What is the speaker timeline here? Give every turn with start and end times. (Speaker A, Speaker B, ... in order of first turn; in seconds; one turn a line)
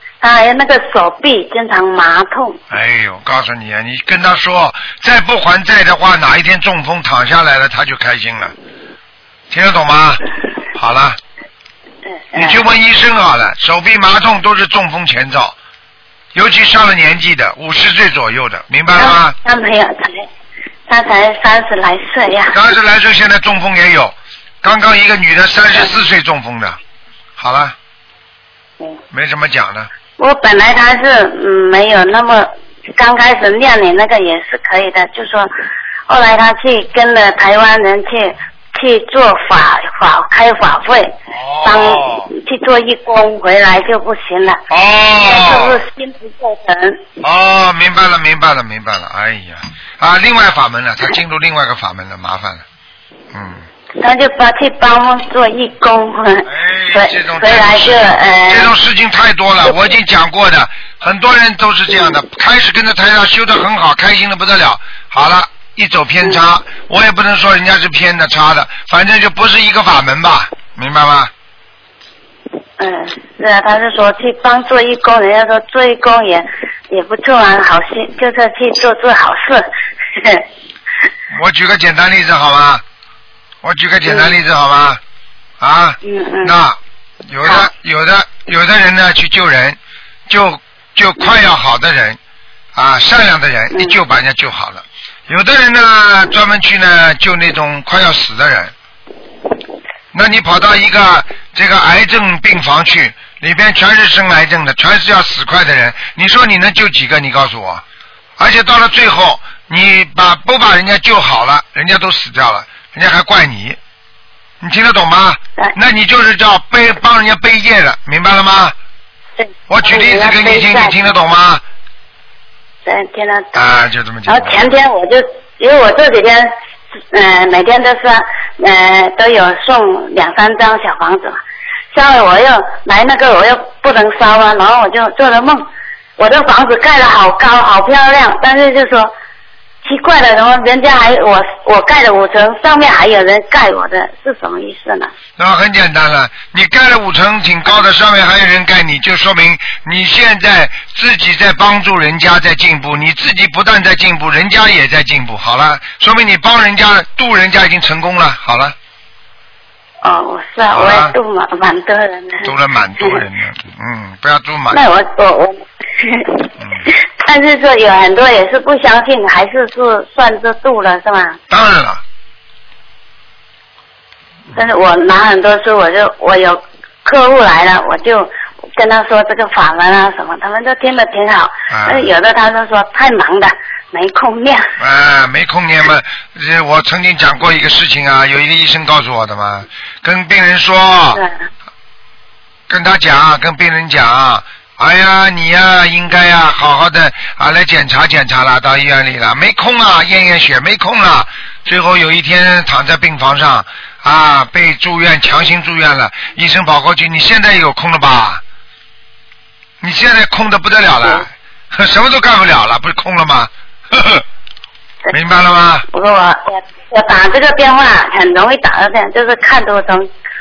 Speaker A: 0.2-2.6
Speaker B: 2.7-8.5
Speaker B: 9.5-10.2
Speaker B: 10.7-11.2
Speaker A: 12.1-12.6
Speaker B: 12.3-15.5
Speaker B: 16.3-19.3
Speaker A: 18.9-20.3
Speaker A: 20.9-22.6
Speaker B: 22.5-26.8
Speaker A: 25.7-26.0
Speaker B: 27.4-27.7
Speaker B: 29.1-29.9
Speaker A: 30.2-35.5
Speaker A: 36.1-44.6
Speaker B: 41.3-42.3
Speaker B: 44.7-45.8
Speaker A: 45.2-47.0
Speaker B: 47.2-52.6
Speaker B: 53.3-53.6
Speaker A: 54.0-58.7
Speaker B: 56.5-71.3
Speaker A: 59.6-60.0
Speaker A: 61.9-62.2
Speaker A: 72.8-80.4
Speaker B: 81.3-82.8
Speaker B: 83.6-85.0
Speaker A: 84.0-84.4
Speaker B: 85.6-92.2
Speaker A: 86.0-86.5
Speaker A: 87.4-87.7
Speaker B: 92.7-98.7
Speaker A: 93.7-94.0
Speaker B: 100.1-107.8
Speaker B: 108.4-113.8
Speaker B: 114.6-118.7
Speaker A: 119.4-121.0
Speaker B: 119.7-121.6
Speaker A: 122.8-123.7
Speaker B: 123.5-124.8
Speaker A: 124.2-126.5
Speaker A: 127.1-131.4
Speaker A: 131.9-135.7
Speaker A: 136.2-139.1
Speaker A: 139.8-145.1
Speaker B: 145.4-158.7
Speaker A: 160.0-162.5
Speaker B: 160.7-161.1
Speaker B: 162.4-164.8
Speaker A: 164.7-171.4
Speaker B: 166.6-166.8
Speaker B: 171.5-172.0
Speaker A: 174.5-184.7
Speaker B: 181.7-182.1
Speaker B: 184.8-191.2
Speaker A: 191.1-191.4
Speaker B: 192.7-208.4
Speaker B: 209.8-214.2
Speaker B: 215.1-215.8
Speaker A: 215.9-220.1